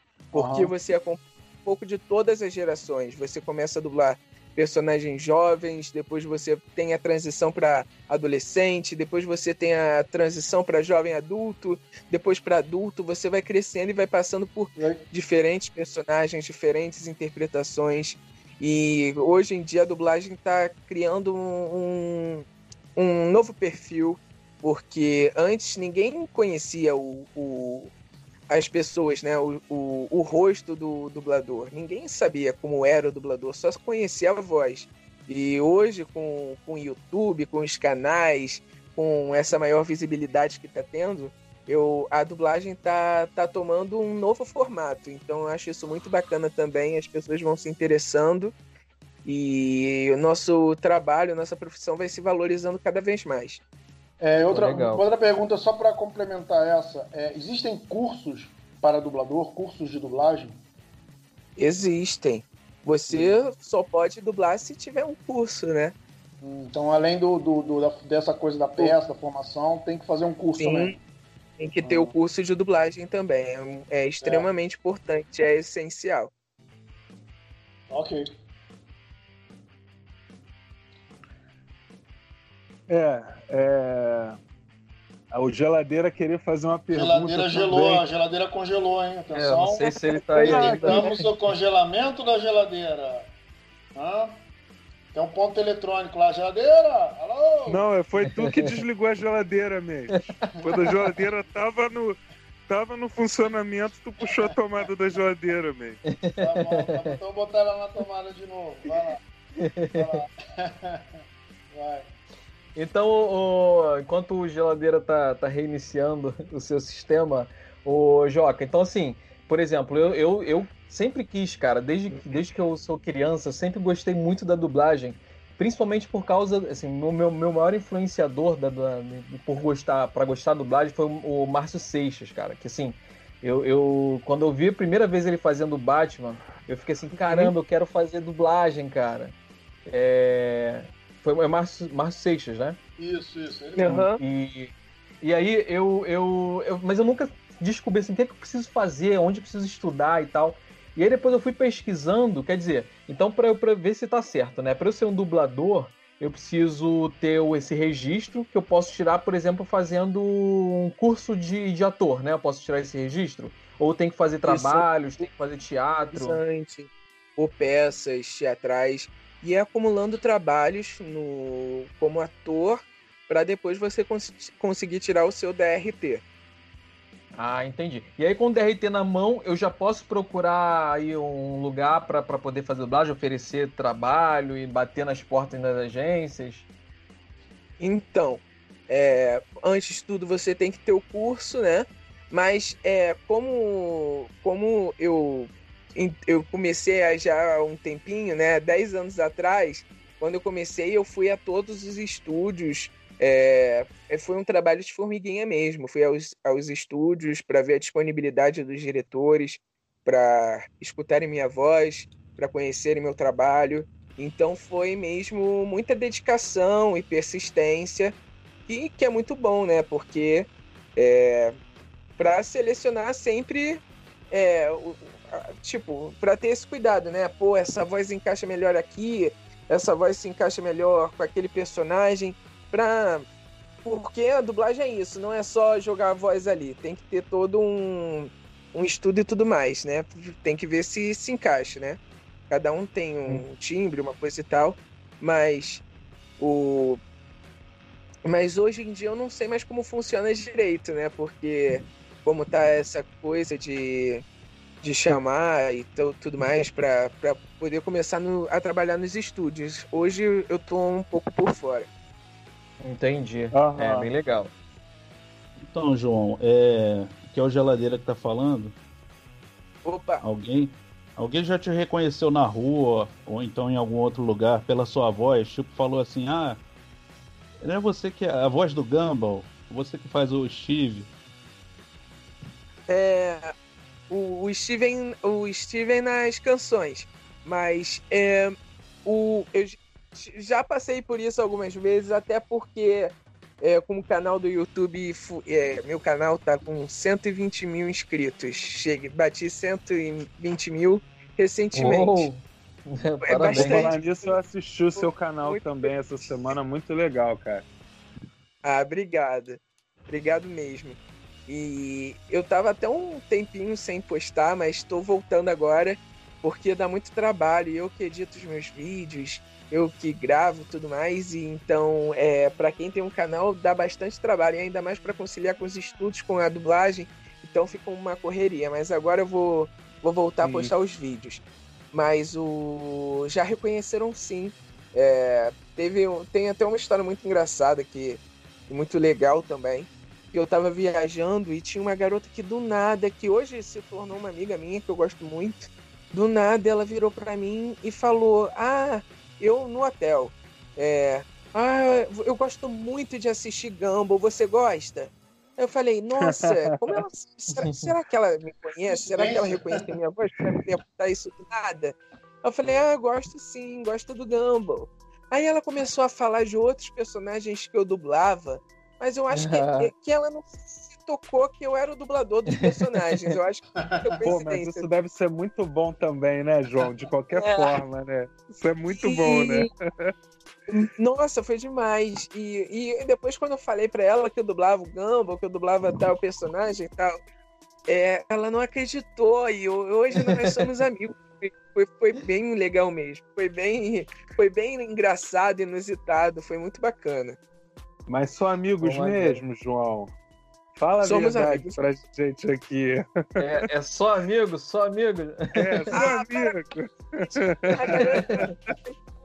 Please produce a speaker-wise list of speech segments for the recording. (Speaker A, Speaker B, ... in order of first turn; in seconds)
Speaker A: 0.3-27.9, 28.5-48.5, 49.2-53.6, 61.6-65.9, 70.6-71.0, 71.6-76.3, 137.3-137.5, 143.8-144.2, 164.4-165.2, 166.1-176.2, 187.8-218.2, 218.7-221.6, 222.2-233.2, 233.8-245.8, 246.4-247.0, 248.2-254.2, 254.8-261.9, 269.8-270.2, 282.9-283.5, 284.1-302.3, 303.2-304.4, 304.9-305.9, 308.6-374.9, 377.3-377.7, 378.9-379.7, 380.7-387.2, 387.9-397.4, 401.0-401.8, 405.9-406.6, 407.4-409.0
Speaker B: 0.3-0.7, 14.8-15.0, 54.2-60.6, 63.1-63.4, 66.4-71.0, 71.8-72.1, 74.2-74.5, 77.9-78.3, 86.9-93.3, 93.9-94.4, 95.1-97.8, 104.2-104.5, 106.4-109.2, 110.0-111.2, 111.7-112.1, 143.0-144.0, 358.9-359.9, 373.7-374.2
Speaker C: 54.5-55.0, 89.3-91.1, 98.2-98.7, 106.1-107.2, 109.6-110.2, 112.7-139.3, 139.9-142.8, 143.9-166.4, 177.3-186.7, 262.8-264.5, 301.7-303.9, 357.5-357.9, 369.3-369.9, 398.8-399.4, 403.4-406.1, 407.9-408.5
Speaker D: 82.9-84.4, 85.3-88.0, 90.4-91.1, 97.7-102.2, 102.7-106.0, 263.5-264.1, 303.4-307.6, 330.4-330.7, 374.2-380.1, 398.1-400.1, 400.8-403.0, 405.5-408.5
Speaker E: 265.6-268.7, 270.2-276.6, 277.6-281.1